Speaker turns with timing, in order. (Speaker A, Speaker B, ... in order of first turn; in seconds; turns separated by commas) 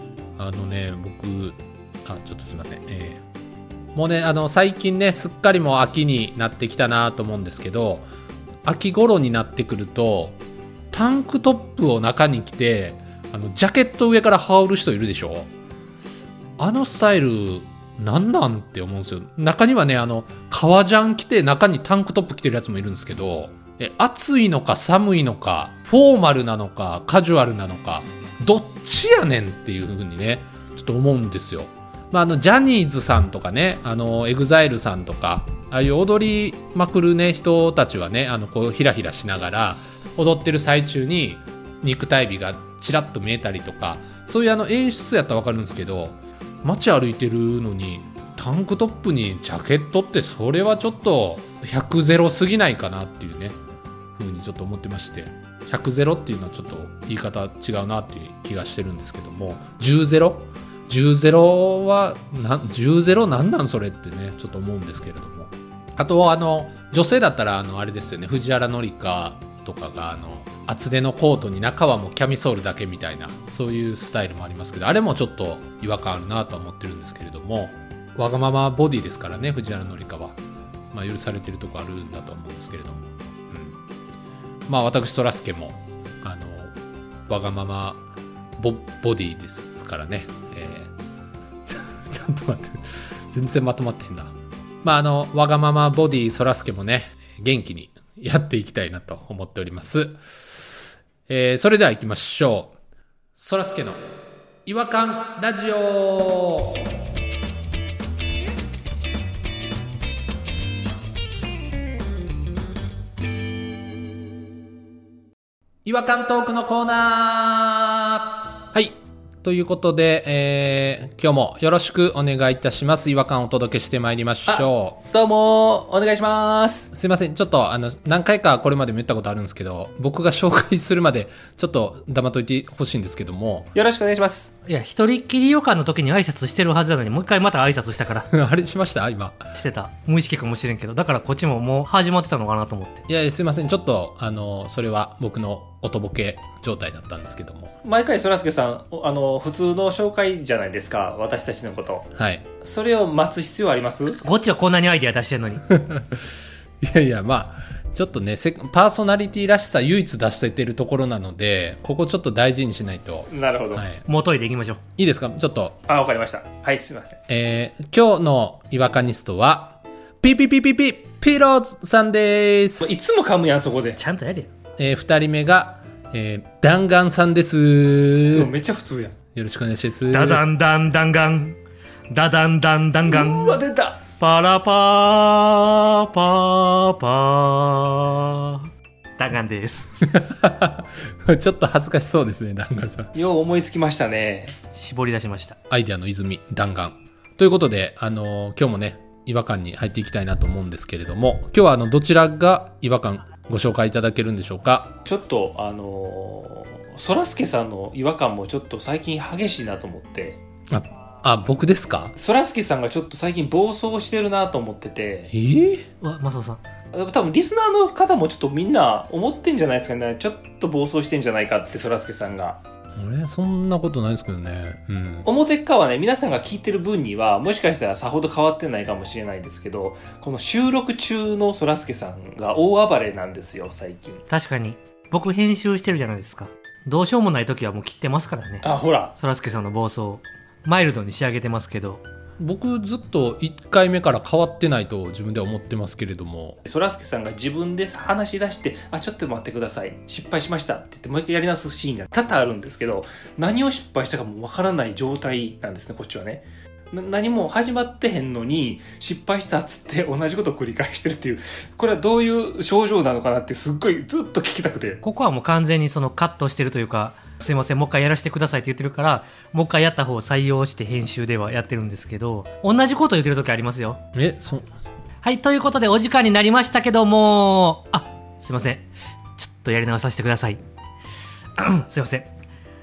Speaker A: 0.4-3.2, Speaker A: 3.9-8.1, Speaker A: 8.6-10.4, Speaker A: 10.9-15.5, Speaker A: 16.6-53.6, Speaker A: 54.2-80.4, Speaker A: 80.9-83.8, Speaker A: 84.7-86.7, Speaker A: 87.3-90.9, Speaker A: 91.7-102.7, Speaker A: 103.3-104.0, Speaker A: 104.7-106.9, Speaker A: 115.8-125.0, Speaker B: 124.5-126.9, Speaker A: 126.9-133.7, Speaker B: 133.7-134.5, Speaker C: 134.6-138.3, Speaker A: 138.3-139.4, Speaker C: 139.5-143.0, Speaker A: 143.1-147.7, Speaker B: 147.8-152.1, Speaker A: 152.2-152.5, Speaker B: 152.6-154.2, Speaker C: 154.2-155.6, Speaker A: 155.7-164.1, Speaker B: 163.3-163.8, Speaker C: 164.1-164.8, Speaker A: 165.0-165.8, Speaker B: 165.9-167.2, Speaker A: 167.3-172.9, Speaker B: 172.8-174.0, Speaker C: 174.0-174.5, Speaker A: 174.8-178.5, Speaker B: 178.3-179.1, Speaker A: 179.3-180.4, Speaker C: 180.1-181.6, Speaker C: 182.1-183.6, Speaker B: 183.1-184.0, Speaker C: 184.1-188.7, Speaker C: 189.2-189.9, Speaker A: 190.1-193.1, Speaker B: 193.1-194.5, Speaker C: 194.7-195.6, Speaker A: 195.7-204.9, Speaker B: 205.0-210.4, Speaker A: 210.7-212.1, Speaker B: 212.2-215.3, Speaker A: 215.3-215.8, Speaker C: 216.0-216.6, Speaker B: 216.9-222.6, Speaker A: 222.9-225.3, Speaker B: 225.2-234.2, Speaker C: 234.3-242.0, Speaker B: 238.6-239.1, Speaker A: 242.4-246.6, Speaker B: 246.6-265.0, Speaker C: 265.0-274.0, Speaker A: 274.1-274.7, Speaker C: 275.2-278.9, Speaker C: 279.4-280.6, Speaker C: 281.6-282.3